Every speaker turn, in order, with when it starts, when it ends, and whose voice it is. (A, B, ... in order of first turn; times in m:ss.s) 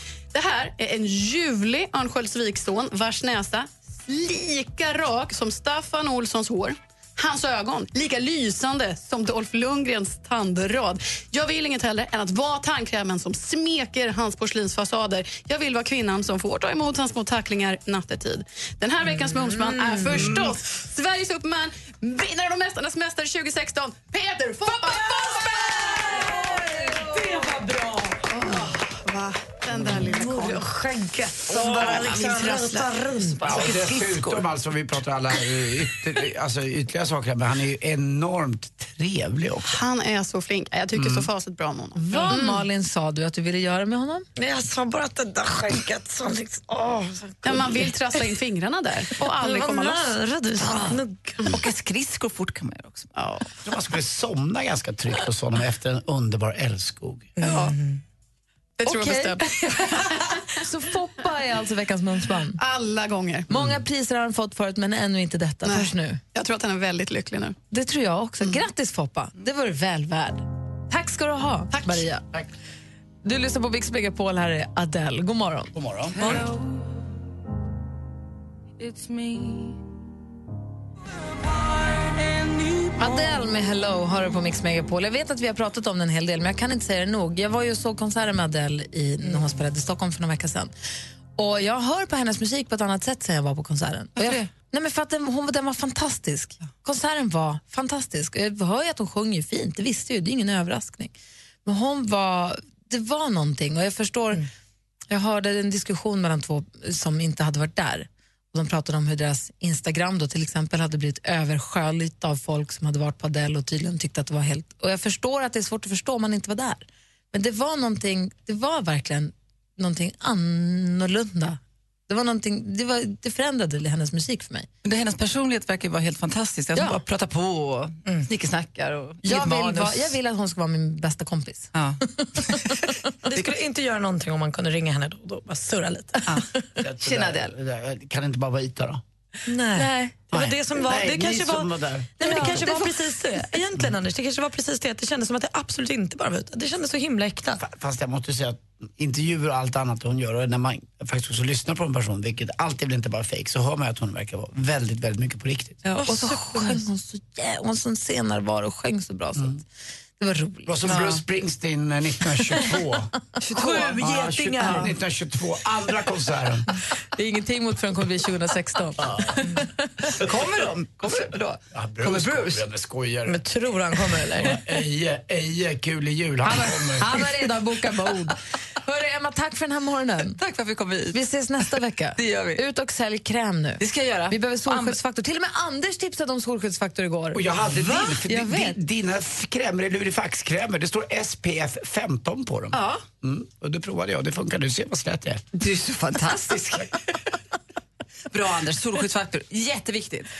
0:00.3-0:25.4 A
0:19.2-0:20.4 B
0:24.7-0:28.3 B
0:28.3-0:30.7 A
0:29.8-0:33.7 B
0:31.5-0:32.9 A
0:33.4-0:39.8 C
0:33.6-0:33.8 D
0:39.6-0:42.4 A
0:40.9-0:41.3 C
0:42.0-0:44.2 E
0:42.2-0:42.6 B
0:44.4-0:48.0 B
0:47.4-0:50.1 A
0:49.2-0:51.6 B
0:51.4-0:53.1 D
0:53.2-0:53.4 A
0:53.6-0:57.4 C
0:57.4-0:58.0 B
0:58.8-1:00.3 A
0:58.9-0:59.4 E
1:00.6-1:02.6 E
1:02.6-1:03.5 A
1:03.5-1:06.2 E
1:03.5-1:03.8 C
1:05.6-1:07.6 A
1:07.7-1:12.2 E
1:11.7-1:12.0 A
1:13.2-1:15.7 E
1:15.7-1:16.2 C
1:18.8-1:19.6 D
1:23.0-1:30.7 E
1:31.4-1:41.1 E
1:34.2-1:34.5 D
1:41.6-1:44.4 E
1:45.1-2:04.7 E
2:04.8-2:10.1 D
2:09.2-2:11.7 E
2:11.7-2:12.0 D
2:13.2-2:16.4 B
2:16.8-2:19.0 C
2:19.5-2:27.6 B
2:19.8-2:20.1 E
2:20.3-2:22.7 C
2:22.2-2:22.8 E
2:27.6-2:35.8 C
2:36.0-2:39.6 E
2:36.0-2:36.8 B
2:40.2-2:41.2 E
2:40.6-2:43.1 C
2:43.5-2:44.9 B
2:43.6-2:44.0 D
2:44.0-2:46.6 C
2:47.1-2:49.6 E
2:50.2-2:52.6 D
2:51.7-2:53.4 C
2:53.2-2:54.6 B
2:54.4-2:57.2 C
2:56.4-3:00.4 E
3:00.3-3:01.2 D
3:01.1-3:08.8 E
3:02.2-3:02.6 D
3:03.8-3:05.0 D
3:07.3-3:15.4 C
3:12.7-3:13.0 E
3:15.5-3:16.9 D
3:18.3-3:20.3 D